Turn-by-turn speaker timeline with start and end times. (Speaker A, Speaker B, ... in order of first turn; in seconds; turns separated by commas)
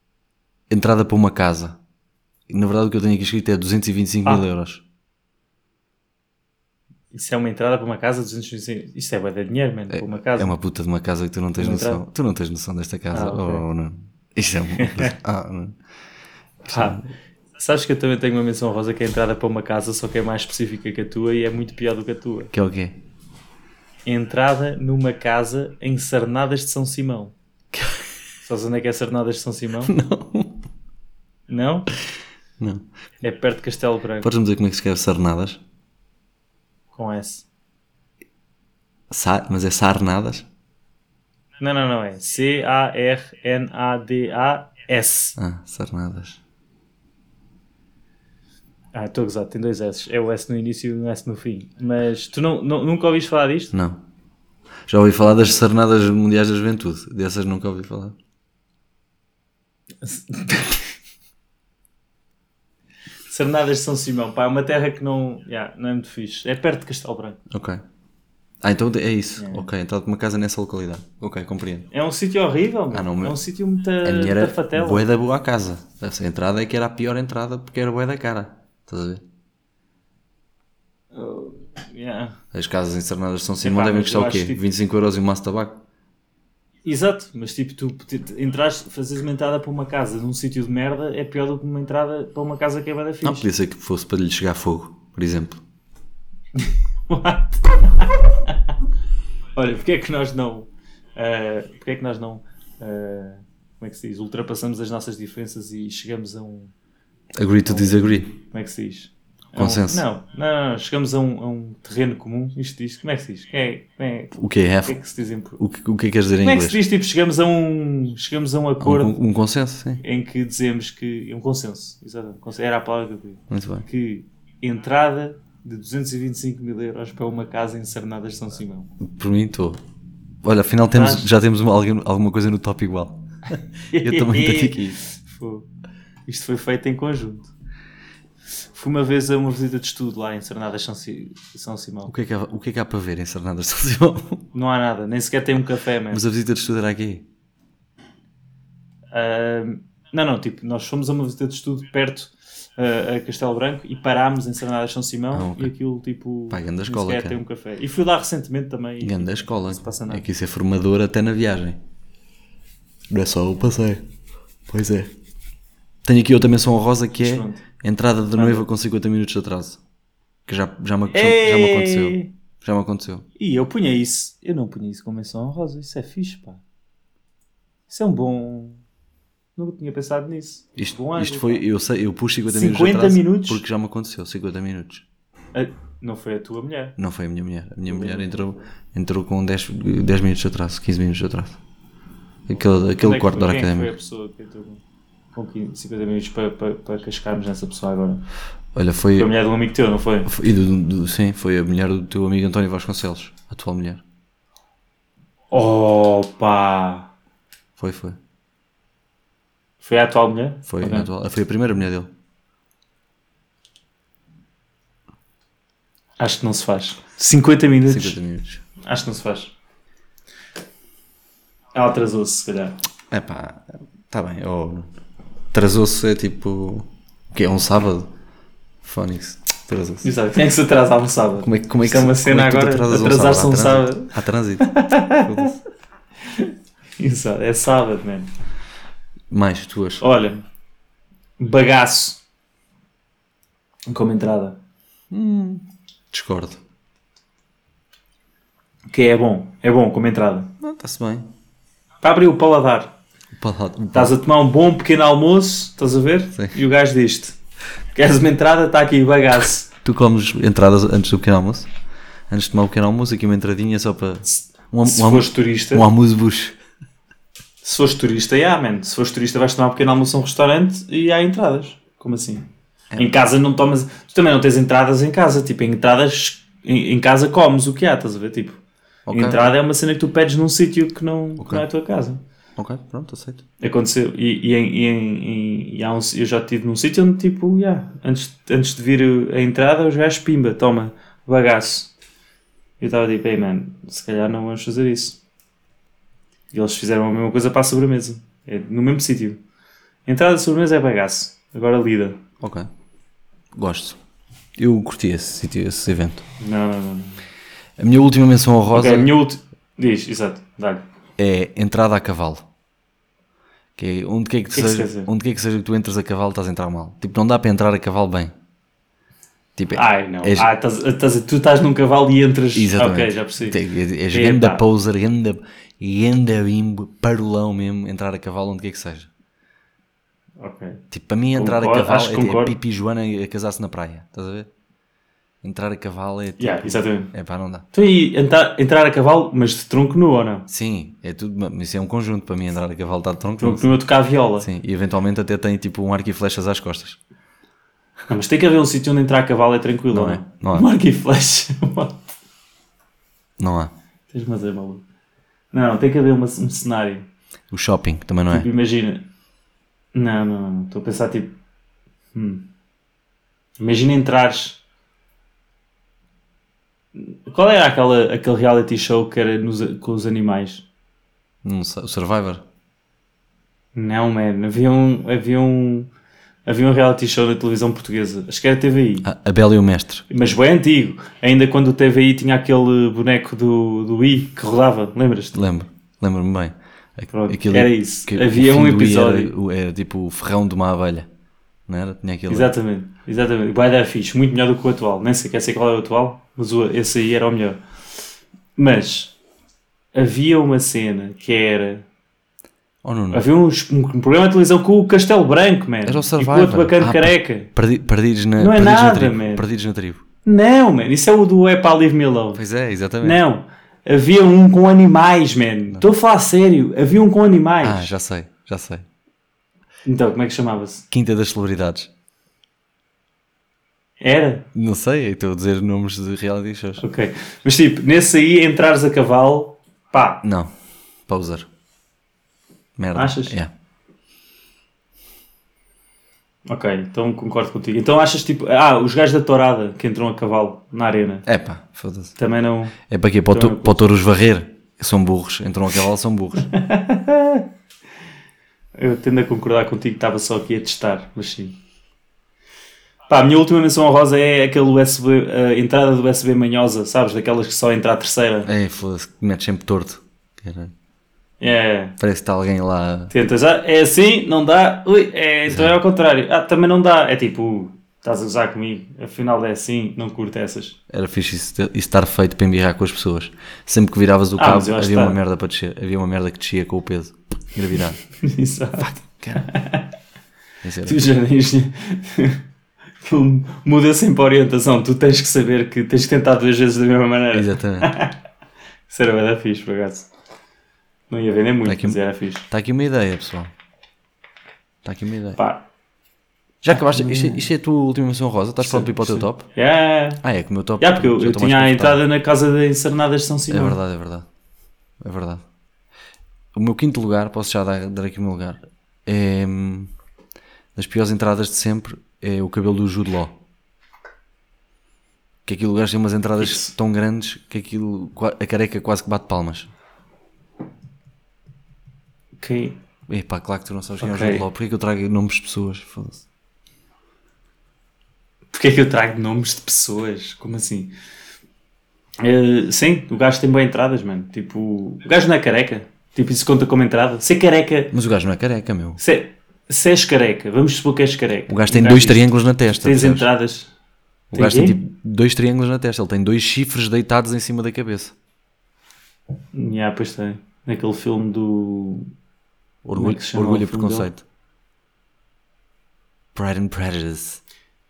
Speaker A: 0.7-1.8, Speaker A: 2.5-4.8, Speaker B: 7.1-10.6, Speaker A: 9.9-15.8, Speaker B: 11.6-12.0, Speaker B: 13.1-13.7, Speaker B: 14.8-15.1, Speaker B: 16.7-17.0, Speaker A: 16.7-17.0, Speaker B: 17.6-22.5, Speaker A: 22.5-23.0, Speaker B: 24.1-27.3, Speaker B: 28.4-30.0, Speaker A: 29.9-30.6, Speaker B: 31.5-31.9, Speaker A: 32.6-32.9, Speaker B: 33.2-34.3, Speaker A: 34.2-35.6, Speaker B: 36.9-37.5, Speaker A: 39.1-40.5, Speaker B: 41.6-45.4, Speaker A: 45.4-46.4, Speaker B: 48.9-53.7, Speaker A: 53.7-54.0, Speaker A: 54.9-58.2, Speaker B: 60.0-60.8, Speaker B: 63.3-67.4, Speaker A: 67.5-67.8, Speaker A: 68.6-71.9, Speaker B: 69.4-69.7, Speaker B: 71.9-75.1, Speaker A: 72.9-73.4, Speaker A: 74.0-79.2, Speaker B: 81.1-82.4, Speaker A: 82.5-85.8, Speaker B: 83.6-84.7, Speaker B: 86.8-93.5, Speaker A: 93.2-95.6, Speaker B: 96.6-98.6, Speaker B: 99.5-106.7, Speaker A: 107.3-108.3, Speaker B: 107.7-115.6, Speaker A: 109.6-110.0, Speaker A: 114.3-115.0, Speaker A: 115.6-116.8, Speaker B: 116.4-119.2, Speaker A: 118.8-120.0, Speaker B: 120.0-128.9, Speaker A: 123.5-123.9, Speaker A: 129.0-129.8, Speaker A: 130.4-135.0, Speaker B: 130.9-131.2, Speaker B: 133.9-135.7, Speaker B: 136.3-137.5, Speaker B: 138.7-142.1, Speaker A: 142.1-144.4, Speaker B: 144.5-146.2, Speaker A: 146.1-147.2, Speaker B: 149.1-160.2, Speaker A: 155.3-155.7, Speaker A: 156.5-157.4, Speaker A: 159.0-161.8, Speaker A: 163.1-164.1, Speaker A: 164.7-165.1, Speaker A: 166.0-169.8, Speaker B: 167.2-167.6, Speaker B: 168.3-168.7, Speaker A: 170.5-173.3, Speaker B: 171.1-172.3, Speaker B: 173.4-176.6, Speaker B: 177.9-178.8, Speaker B: 179.6-181.6, Speaker A: 180.8-185.1, Speaker B: 182.5-183.6, Speaker B: 185.5-187.0, Speaker A: 187.0-191.6, Speaker B: 187.9-188.7, Speaker A: 192.5-193.9, Speaker B: 192.9-194.8, Speaker B: 195.3-198.2, Speaker A: 198.7-199.3, Speaker B: 199.2-200.3, Speaker A: 200.3-204.0, Speaker B: 205.5-207.1, Speaker A: 207.8-208.2, Speaker B: 209.8-211.1, Speaker A: 210.7-212.1, Speaker B: 216.2-218.2, Speaker A: 217.9-218.6, Speaker B: 218.8-219.5, Speaker B: 221.7-222.8, Speaker A: 223.1-224.9, Speaker A: 225.5-228.1, Speaker A: 228.8-230.1, Speaker B: 230.0-235.5, Speaker A: 231.4-235.6, Speaker B: 236.3-238.3, Speaker A: 239.3-240.0, Speaker B: 240.0-240.4, Speaker B: 241.4-242.2, Speaker B: 243.9-244.6, Speaker A: 245.1-246.6, Speaker B: 248.9-250.5, Speaker A: 250.6-251.3, Speaker B: 252.0-253.0, Speaker A: 253.3-254.2, Speaker B: 253.9-257.4, Speaker B: 257.9-259.7, Speaker A: 259.8-261.7, Speaker A: 262.3-266.6, Speaker B: 264.8-265.9, Speaker B: 267.6-278.6, Speaker A: 279.1-279.5, Speaker B: 279.1-282.2, Speaker A: 281.4-281.6, Speaker A: 282.6-283.4, Speaker B: 283.6-291.9, Speaker B: 292.8-295.2, Speaker B: 296.5-299.4, Speaker B: 300.1-302.2, Speaker A: 302.4-302.7, Speaker A: 303.5-304.0, Speaker A: 304.6-306.2, Speaker B: 306.4-307.2, Speaker A: 307.8-309.1, Speaker B: 308.7-310.9, Speaker A: 311.2-312.5, Speaker A: 313.8-318.3, Speaker B: 314.5-315.1, Speaker A: 319.6-320.5, Speaker B: 319.7-323.6, Speaker A: 322.5-329.1, Speaker B: 324.1-324.6, Speaker B: 330.4-330.8, Speaker A: 330.9-334.5, Speaker B: 331.3-332.6, Speaker A: 335.4-337.7, Speaker B: 336.4-337.1, Speaker B: 337.7-340.5, Speaker A: 340.5-343.7, Speaker B: 343.4-344.5, Speaker A: 344.4-347.0, Speaker B: 348.1-352.1, Speaker A: 349.9-350.7, Speaker A: 353.4-353.7, Speaker B: 354.1-354.8, Speaker B: 355.5-357.1, Speaker A: 357.5-358.5, Speaker B: 358.3-359.1, Speaker B: 359.9-361.4, Speaker B: 362.1-362.5, Speaker B: 363.6-364.6, Speaker B: 367.0-370.7, Speaker A: 371.4-372.4, Speaker B: 373.8-375.9, Speaker B: 376.5-379.1, Speaker A: 379.0-380.1, Speaker B: 380.1-385.5, Speaker A: 385.3-391.1, Speaker B: 387.1-389.3, Speaker A: 391.7-392.5, Speaker B: 392.3-397.6, Speaker B: 398.6-399.1, Speaker B: 399.9-401.9, Speaker A: 402.8-403.3, Speaker B: 403.1-407.5, Speaker A: 405.9-410.0, Speaker B: 408.4-409.4, Speaker B: 410.2-412.4, Speaker A: 412.4-413.2, Speaker B: 413.0-417.9, Speaker A: 417.6-418.9, Speaker B: 419.9-420.9, Speaker A: 420.9-421.9, Speaker B: 424.0-424.5, Speaker A: 424.6-426.9, Speaker B: 426.8-430.2, Speaker A: 430.2-430.5, Speaker A: 431.1-431.5, Speaker A: 432.8-433.5, Speaker B: 432.9-433.4, Speaker B: 436.5-441.3, Speaker A: 441.3-442.2, Speaker B: 442.2-442.8, Speaker A: 442.9-446.5, Speaker B: 443.3-443.9, Speaker B: 446.5-447.5, Speaker B: 448.8-451.6, Speaker B: 453.1-458.5, Speaker A: 458.5-460.7, Speaker B: 461.4-462.0, Speaker A: 462.0-463.1, Speaker B: 463.1-470.8, Speaker A: 465.5-465.8, Speaker A: 470.9-478.0, Speaker B: 474.4-475.2, Speaker B: 478.2-479.9, Speaker A: 478.8-479.5, Speaker A: 480.6-481.1, Speaker B: 480.8-482.4, Speaker B: 483.0-488.2, Speaker A: 487.3-487.9, Speaker B: 488.9-490.1, Speaker B: 491.1-492.5, Speaker A: 491.6-493.5, Speaker A: 494.8-495.4, Speaker B: 495.4-495.6, Speaker A: 496.6-499.5, Speaker B: 496.8-497.5, Speaker B: 498.6-500.2, Speaker A: 500.2-502.0, Speaker B: 500.8-503.8, Speaker A: 503.5-504.3, Speaker A: 505.0-505.4, Speaker A: 506.5-509.9, Speaker A: 510.8-513.4, Speaker A: 515.5-519.7, Speaker B: 516.4-516.7, Speaker B: 522.4-522.8, Speaker A: 523.1-526.2, Speaker B: 524.0-524.5, Speaker B: 528.5-530.9, Speaker B: 532.2-537.9, Speaker A: 537.9-539.0, Speaker B: 539.0-543.7, Speaker A: 541.5-543.3, Speaker A: 544.3-548.1, Speaker B: 544.3-544.8, Speaker B: 549.5-552.1, Speaker A: 552.8-554.2, Speaker B: 553.0-554.1, Speaker A: 556.4-557.4